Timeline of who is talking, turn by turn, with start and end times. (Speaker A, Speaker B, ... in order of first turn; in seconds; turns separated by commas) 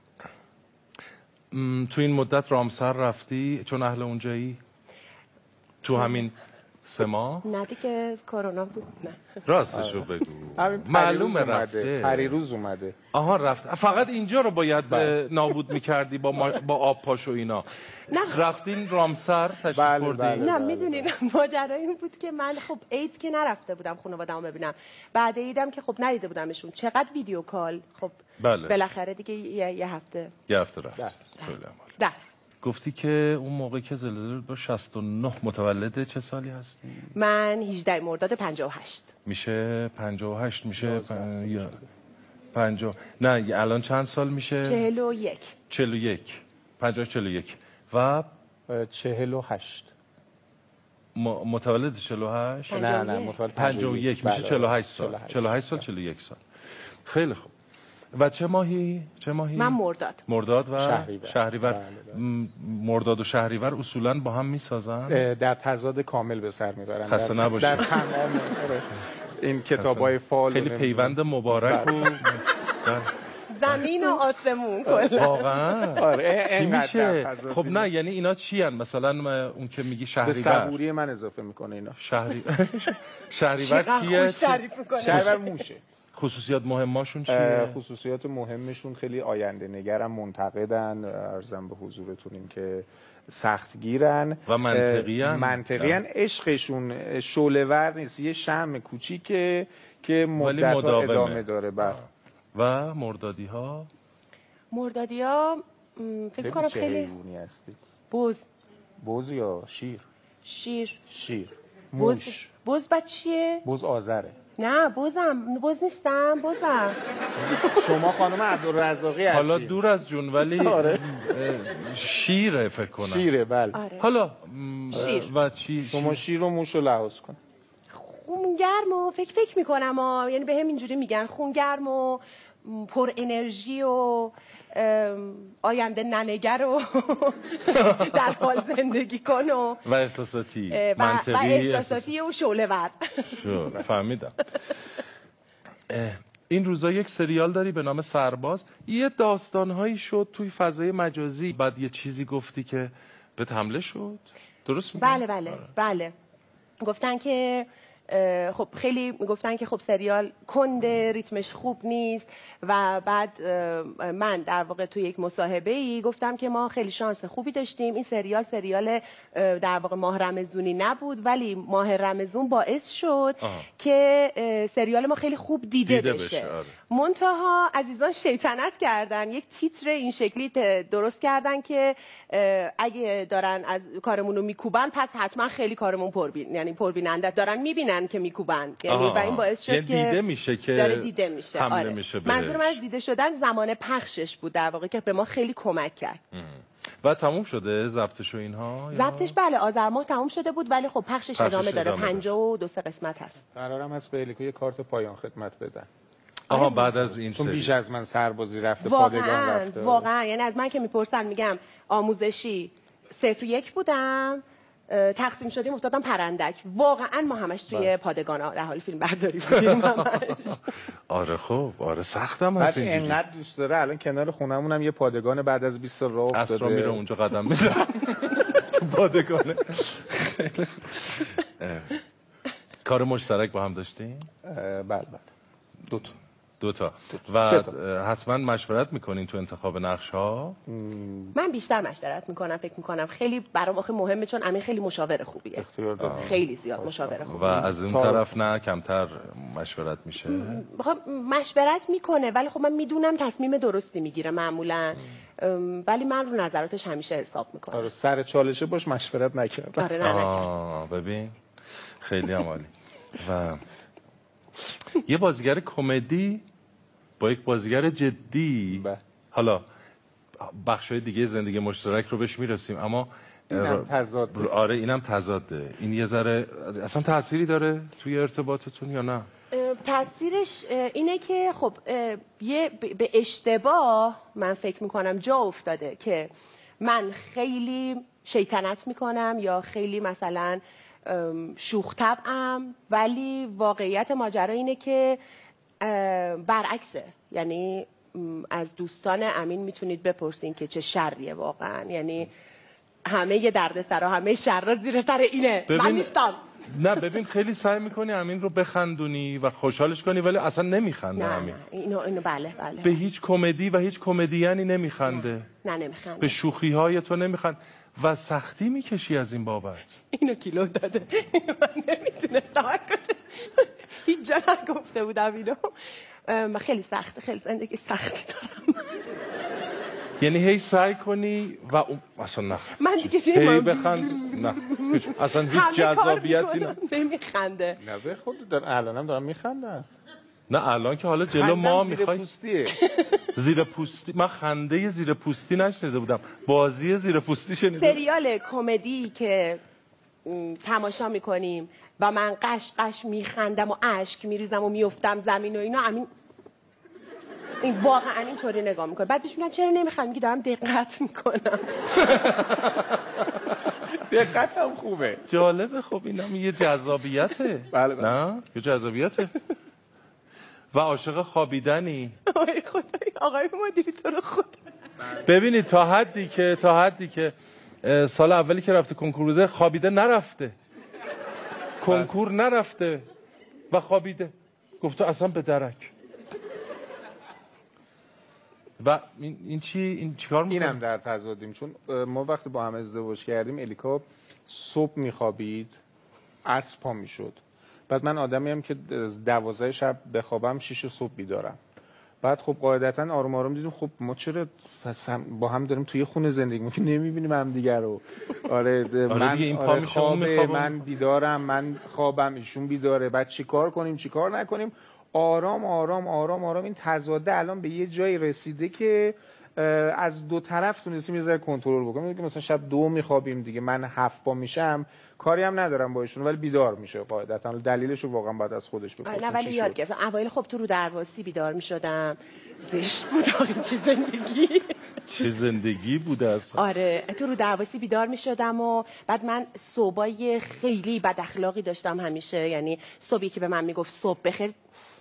Speaker A: 1.5-4.6, Speaker A: 5.8-7.5, Speaker B: 7.4-9.3, Speaker A: 9.5-12.4, Speaker C: 9.7-13.0, Speaker A: 13.1-20.5, Speaker C: 14.9-15.2, Speaker B: 18.1-18.4, Speaker C: 19.7-21.1, Speaker B: 20.4-30.3, Speaker A: 28.4-28.8, Speaker A: 30.5-32.0, Speaker B: 31.4-32.2, Speaker A: 32.6-37.1, Speaker B: 37.1-39.1, Speaker A: 39.3-41.8, Speaker C: 40.8-41.9, Speaker A: 42.5-44.9, Speaker B: 44.6-45.5, Speaker A: 45.7-48.3, Speaker C: 48.7-49.9, Speaker A: 51.1-52.9, Speaker B: 52.7-53.4, Speaker C: 52.7-55.8, Speaker A: 53.6-56.4, Speaker A: 57.0-57.5, Speaker A: 58.1-65.2, Speaker B: 59.6-60.2, Speaker C: 60.8-62.2, Speaker C: 65.1-72.3, Speaker A: 67.1-68.0, Speaker A: 69.8-73.1, Speaker B: 73.5-75.6, Speaker A: 75.1-80.8, Speaker C: 76.0-77.9, Speaker C: 80.2-82.0, Speaker A: 82.0-85.4, Speaker B: 83.6-85.6, Speaker C: 85.0-85.8, Speaker A: 86.1-87.8, Speaker C: 87.3-102.0, Speaker A: 94.5-96.0, Speaker A: 100.4-103.9, Speaker B: 104.7-107.1, Speaker C: 106.4-107.8, Speaker B: 108.1-108.5, Speaker C: 109.0-110.1, Speaker B: 110.5-111.0, Speaker C: 111.1-112.4, Speaker B: 112.0-113.7, Speaker C: 113.6-114.4, Speaker B: 114.6-117.0, Speaker C: 117.4-119.8, Speaker A: 119.3-123.2, Speaker C: 120.5-121.0, Speaker C: 123.0-123.8, Speaker B: 123.7-124.1, Speaker A: 124.0-126.2, Speaker B: 124.9-125.3, Speaker C: 125.8-127.4, Speaker B: 127.9-139.8, Speaker A: 137.7-138.2, Speaker A: 139.8-142.1, Speaker B: 140.7-143.7, Speaker A: 143.3-144.4, Speaker A: 145.9-155.7, Speaker B: 155.0-156.1, Speaker B: 156.8-190.2, Speaker A: 173.4-173.7, Speaker A: 175.8-176.8, Speaker A: 188.9-192.8, Speaker B: 190.7-196.2, Speaker A: 196.3-199.3, Speaker B: 198.9-203.4, Speaker A: 201.4-202.2, Speaker C: 203.6-205.9, Speaker B: 206.5-206.9, Speaker A: 206.5-207.7, Speaker C: 207.3-210.1, Speaker B: 208.8-220.6, Speaker A: 219.6-220.1, Speaker A: 221.1-223.2, Speaker C: 222.6-227.0, Speaker A: 226.3-232.0, Speaker A: 232.8-234.3, Speaker C: 234.4-235.3, Speaker C: 235.9-236.2, Speaker A: 236.6-240.6, Speaker C: 237.4-237.8, Speaker C: 240.7-241.3, Speaker B: 241.3-247.4, Speaker C: 245.6-248.3, Speaker A: 246.0-246.4, Speaker A: 247.3-250.6, Speaker B: 250.3-257.9, Speaker C: 257.7-260.1, Speaker B: 259.8-260.5, Speaker A: 260.0-263.6, Speaker A: 265.0-266.4, Speaker A: 267.2-269.6, Speaker C: 268.7-269.0, Speaker A: 270.4-279.3, Speaker C: 273.5-274.5, Speaker B: 279.5-295.2, Speaker B: 295.8-302.3, Speaker B: 303.1-306.4, Speaker A: 305.7-306.1, Speaker A: 306.7-311.6, Speaker B: 311.2-313.0, Speaker A: 312.8-315.5, Speaker B: 315.6-316.4, Speaker A: 316.2-319.9, Speaker B: 320.1-325.7, Speaker B: 326.3-328.9, Speaker A: 330.2-336.8, Speaker B: 332.8-337.8, Speaker C: 337.8-339.9, Speaker A: 340.5-342.3, Speaker C: 341.3-342.8, Speaker B: 342.8-343.3, Speaker A: 343.4-348.0, Speaker B: 347.8-349.6, Speaker B: 350.2-356.1, Speaker B: 357.6-362.1, Speaker A: 362.1-363.2, Speaker C: 364.0-365.2, Speaker A: 365.3-369.3, Speaker C: 367.7-368.2, Speaker A: 370.7-372.2, Speaker B: 372.3-374.6, Speaker A: 375.2-380.6, Speaker A: 381.8-383.1, Speaker A: 383.7-385.9, Speaker A: 388.8-390.8, Speaker C: 390.5-395.8, Speaker C: 396.4-401.6, Speaker C: 402.2-429.8, Speaker A: 409.1-410.8, Speaker B: 429.1-434.8, Speaker A: 435.1-436.6, Speaker B: 436.6-444.6